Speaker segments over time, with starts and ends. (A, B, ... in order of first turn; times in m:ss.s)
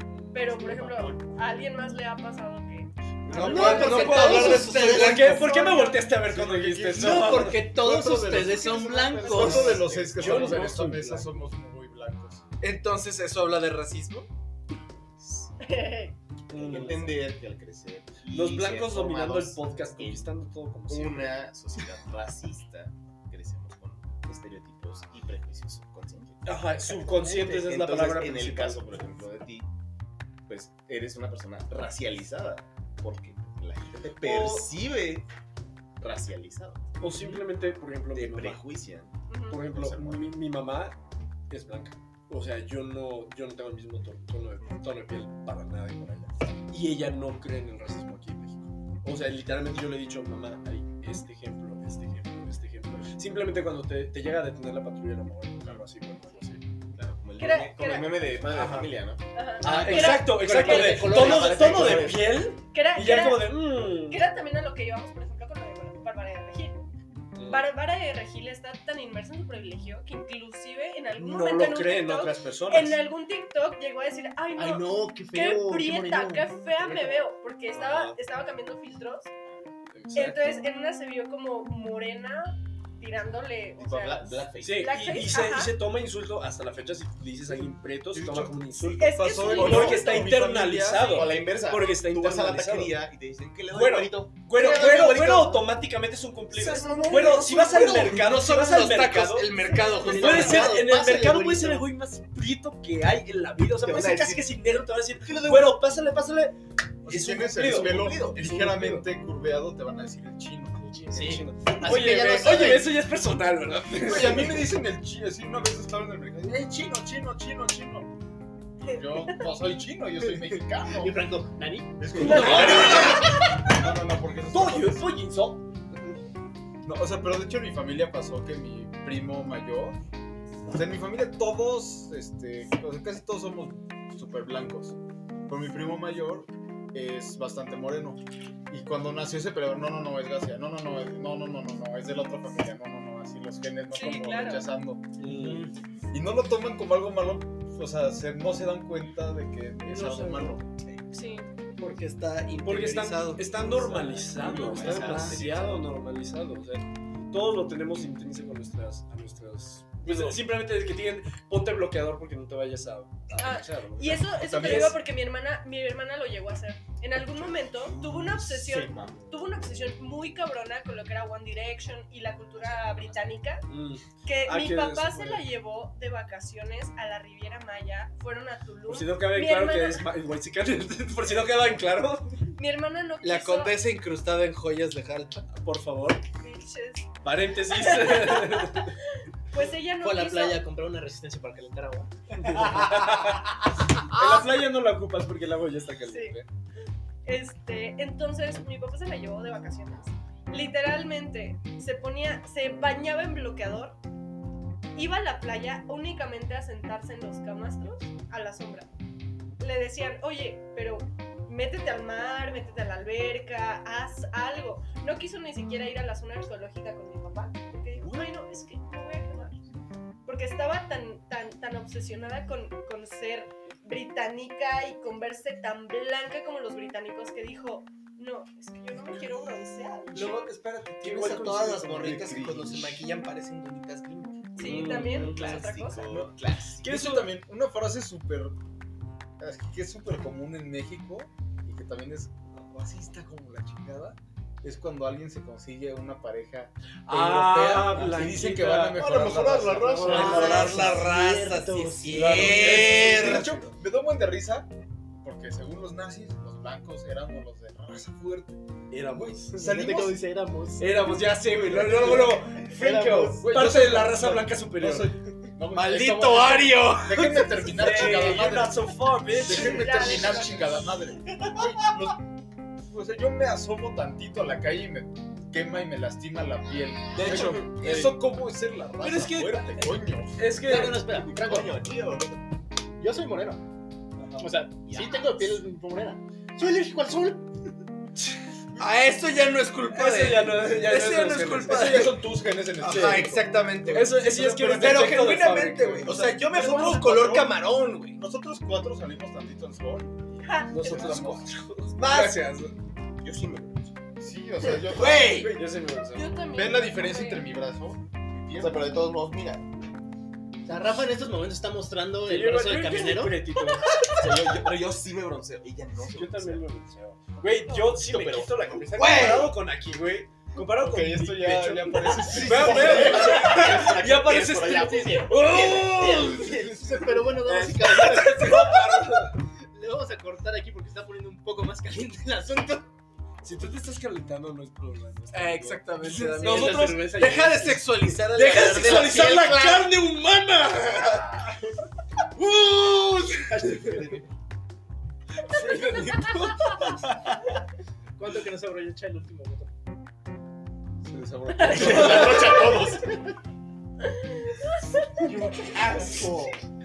0:00.3-0:02.9 A
0:00.5-0:01.2 B
0:03.3-0:07.7 C
0:03.3-0:04.2 D
0:03.3-0:05.4 B
0:03.3-0:05.5 E
0:03.6-0:04.1 A
0:05.5-0:12.4 D
0:05.5-0:06.1 A
0:06.9-0:10.5 B
0:09.2-0:09.8 A
0:09.3-0:11.4 C
0:12.6-0:14.3 E
0:15.2-0:15.5 F
0:15.6-0:16.1 A
0:16.5-0:17.3 C
0:16.6-0:20.3 F
0:18.3-0:21.5 C
0:20.9-0:29.7 F
0:26.4-0:29.0 C
0:30.5-0:35.3 F
0:34.2-0:34.7 C
0:36.0-0:36.8 F
0:37.0-0:38.7 C
0:38.1-0:40.3 F
0:39.3-0:39.6 A
0:39.5-0:41.0 C
0:41.5-0:56.6 C
0:57.0-0:59.3 F
0:57.4-0:58.3 A
0:58.4-0:59.0 C
0:59.3-1:01.8 A
0:59.6-1:04.3 C
0:59.6-1:02.2 B
1:01.2-1:02.2 F
1:02.6-1:06.8 A
1:07.4-1:07.7 C
1:07.4-1:19.3 A
1:11.2-1:13.0 C
1:14.6-1:17.3 B
1:17.7-1:18.2 C
1:19.9-1:20.6 C
1:20.1-1:25.8 A
1:23.8-1:25.1 F
1:24.6-1:33.0 C
1:28.1-1:31.3 D
1:29.0-1:30.4 A
1:29.4-1:30.0 F
1:31.1-1:35.7 F
1:33.7-1:49.1 C
1:34.6-1:35.1 E
1:36.6-1:40.9 E
1:36.7-1:38.1 F
1:39.7-1:40.2 A
1:39.9-1:41.9 B
1:43.8-1:44.6 F
1:45.2-1:45.8 F
1:47.0-1:51.6 D
1:47.7-1:48.5 F
1:50.8-1:52.9 B
1:51.2-1:54.7 C
1:54.0-1:58.2 D
1:58.8-2:01.3 D
1:58.9-1:59.4 A
2:00.8-2:03.2 B
2:02.0-2:05.1 D
2:02.1-2:03.4 C
2:04.5-2:05.6 C
2:06.8-2:10.0 D
2:10.7-2:25.1 D
2:23.9-2:24.7 A
2:25.2-2:25.7 C
2:25.3-2:25.7 B
2:26.1-2:30.7 D
2:29.9-2:30.6 B
2:31.1-2:31.5 A
2:31.8-2:34.5 E
2:32.6-2:45.0 C
2:34.3-2:35.8 F
2:34.5-2:35.3 D
2:40.1-2:40.4 E
2:43.4-2:53.7 A
2:44.4-2:44.9 D
2:47.7-2:49.5 F
2:53.7-2:55.4 C
2:54.2-3:00.1 A
2:58.9-3:02.5 C
3:02.6-3:03.8 A
3:03.2-3:05.5 E
3:05.5-3:06.2 C
3:06.4-3:07.1 A
3:07.2-3:08.9 C
3:07.7-3:10.6 A
3:10.0-3:13.2 B
3:12.3-3:16.5 C
3:16.1-3:16.4 A
3:17.2-3:24.0 A
3:25.0-3:28.9 A
3:29.6-3:39.6 A
3:40.2-3:50.4 A
3:50.1-3:56.0 E
3:51.0-3:51.9 C
3:52.0-3:53.0 F
3:54.6-3:56.1 A
3:54.6-3:55.8 C
3:55.3-3:56.8 F
3:56.1-3:58.6 D
3:56.8-3:57.3 C
3:59.4-4:10.6 D
4:07.1-4:11.1 C
4:10.0-4:12.7 B
4:10.1-4:13.6 E
4:12.1-4:13.7 C
4:12.2-4:18.6 D
4:18.9-4:19.7 C
4:19.1-4:20.2 D
4:19.6-4:21.0 B
4:20.8-4:25.1 C
4:21.7-4:23.5 B
4:21.7-4:22.3 D
4:23.3-4:32.2 D
4:25.7-4:28.2 E
4:27.6-4:30.4 C
4:29.5-4:30.9 A
4:32.9-4:40.6 D
4:37.1-4:38.2 C
4:39.0-4:41.1 C
4:40.6-4:41.8 B
4:40.8-4:42.4 F
4:43.0-4:43.6 B
4:44.2-4:44.5 C
4:44.4-4:47.6 B
4:44.8-4:45.6 F
4:48.8-4:58.2 E
4:49.9-4:52.2 C
4:51.7-4:55.4 D
4:52.8-4:53.4 C
4:53.9-4:57.4 C
4:56.2-4:57.5 D
4:56.6-4:57.3 A
4:58.1-5:01.5 D
5:00.4-5:01.3 A
5:00.7-5:02.8 C
5:02.0-5:02.4 E
5:03.2-5:03.9 F
5:04.2-5:05.5 D
5:04.9-5:05.4 E
5:04.9-5:06.4 C
5:06.1-5:07.5 A
5:06.5-5:09.1 D
5:08.5-5:09.6 F
5:10.6-5:13.4 B
5:12.2-5:13.9 C
5:14.1-5:16.7 F
5:16.0-5:26.7 C
5:17.4-5:18.0 A
5:18.0-5:19.4 F
5:18.9-5:19.6 E
5:20.6-5:24.3 D
5:22.3-5:27.3 F
5:25.9-5:28.9 B
5:27.4-5:29.4 C
5:29.6-5:32.9 B
5:33.4-5:37.0 C
5:35.3-5:39.9 E
5:36.4-5:37.8 B
5:38.1-5:41.4 C
5:42.4-5:44.0 C
5:43.5-5:44.2 B
5:45.4-5:46.9 C
5:48.2-5:49.7 B
5:51.0-5:52.8 D
5:51.7-5:53.1 F
5:51.9-5:52.2 C
5:54.5-5:55.1 A
5:55.3-5:56.4 C
5:55.8-5:56.2 D
5:56.0-5:56.3 F